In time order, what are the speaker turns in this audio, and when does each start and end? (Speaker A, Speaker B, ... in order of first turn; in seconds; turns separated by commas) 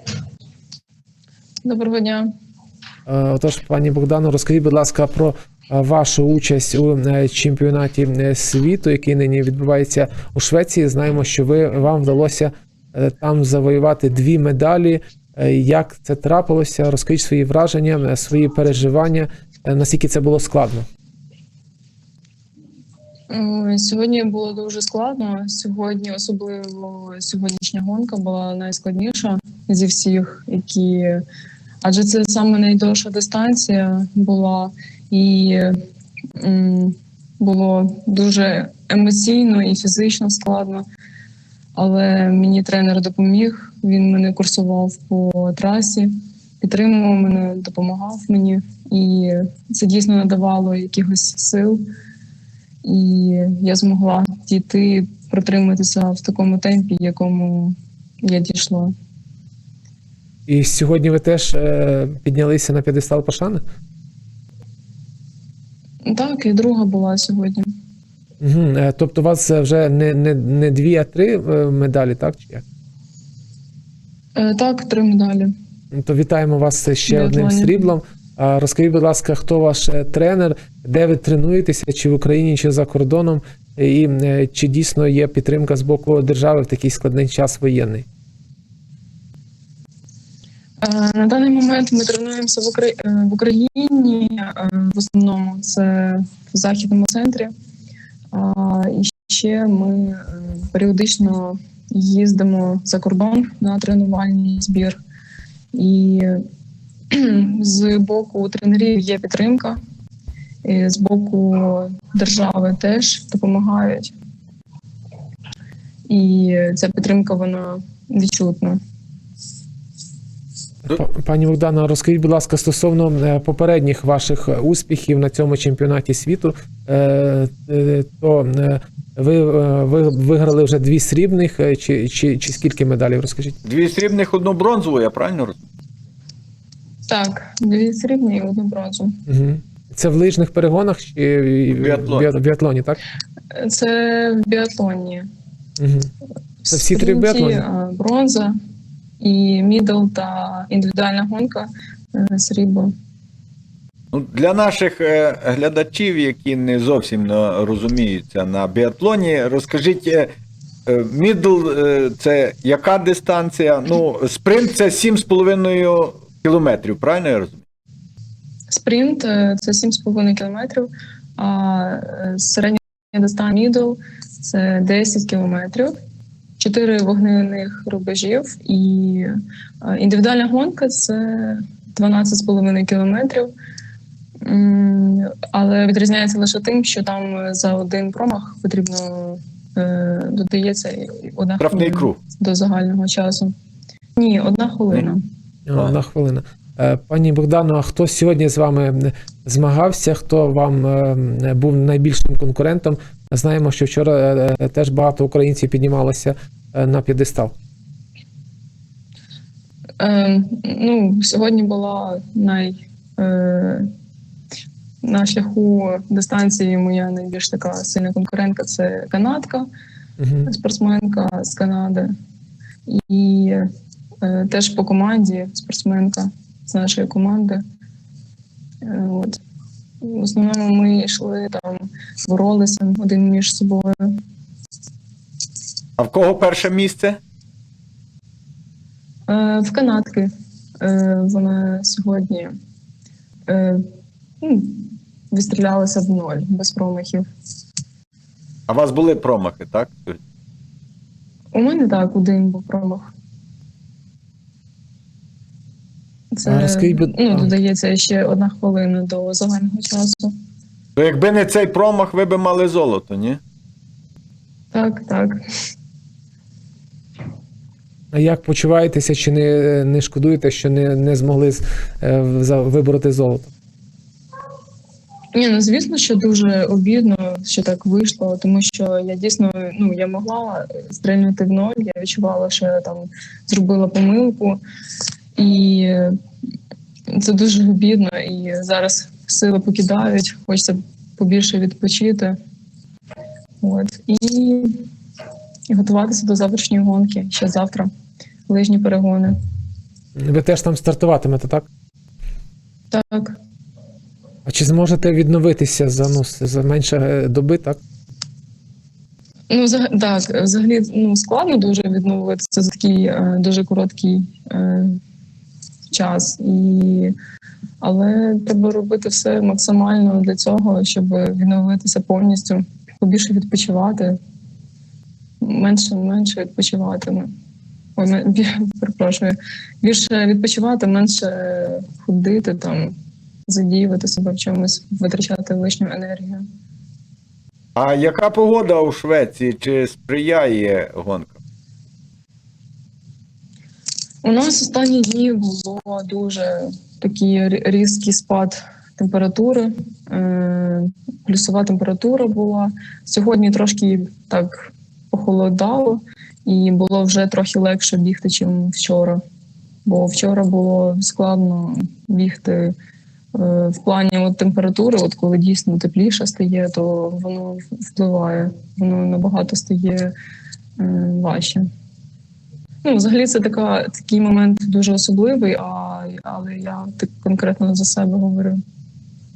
Speaker A: 1.6-2.2, Speaker B: 3.1-20.9, Speaker A: 23.3-31.2, Speaker A: 31.8-35.8, Speaker A: 36.4-40.8, Speaker A: 41.7-46.1, Speaker A: 46.6-51.8, Speaker A: 52.8-58.9, Speaker B: 60.5-63.6, Speaker A: 66.0-67.7, Speaker B: 68.4-72.6, Speaker A: 74.3-75.5, Speaker B: 75.9-88.0, Speaker A: 77.1-77.9, Speaker A: 90.8-97.5, Speaker A: 98.3-105.0, Speaker A: 105.7-106.4, Speaker A: 107.1-109.8, Speaker A: 110.6-114.1, Speaker A: 116.1-118.8, Speaker B: 120.8-133.6, Speaker C: 133.6-135.6, Speaker A: 137.1-139.2, Speaker B: 139.3-143.0, Speaker C: 141.7-142.3, Speaker A: 143.5-145.3, Speaker B: 145.8-146.1, Speaker A: 146.6-148.5, Speaker B: 146.7-147.6, Speaker A: 149.2-152.9, Speaker C: 154.1-160.3, Speaker C: 160.9-167.6, Speaker A: 168.7-175.9, Speaker A: 176.6-183.5, Speaker A: 184.4-193.5, Speaker C: 191.6-192.2, Speaker A: 194.2-195.2, Speaker B: 195.7-207.5, Speaker A: 210.0-213.9, Speaker A: 215.0-219.7, Speaker B: 220.2-220.5, Speaker A: 220.4-222.1, Speaker A: 222.9-223.6, Speaker A: 224.2-227.6, Speaker A: 228.8-229.4, Speaker A: 230.0-234.0, Speaker C: 236.0-237.2, Speaker A: 239.3-240.3, Speaker A: 240.8-242.5, Speaker A: 243.5-243.8, Speaker A: 244.4-247.2, Speaker C: 248.7-250.2, Speaker A: 251.5-253.1, Speaker A: 256.3-260.3, Speaker B: 256.4-257.5, Speaker C: 260.9-263.4, Speaker A: 264.7-265.3, Speaker B: 268.1-273.5, Speaker A: 275.3-284.6, Speaker A: 285.4-286.1, Speaker A: 287.1-292.4, Speaker A: 293.6-294.8, Speaker A: 295.7-297.9, Speaker A: 298.5-299.3, Speaker B: 300.2-301.7, Speaker A: 302.9-303.4, Speaker B: 304.4-307.8, Speaker A: 309.5-315.0, Speaker A: 315.9-317.1, Speaker A: 317.8-324.2, Speaker A: 325.4-327.3, Speaker A: 328.0-332.9, Speaker A: 333.5-336.4, Speaker C: 337.7-341.4, Speaker A: 344.2-359.2, Speaker A: 359.8-362.7, Speaker A: 363.3-370.1, Speaker A: 370.8-371.6, Speaker A: 372.8-378.6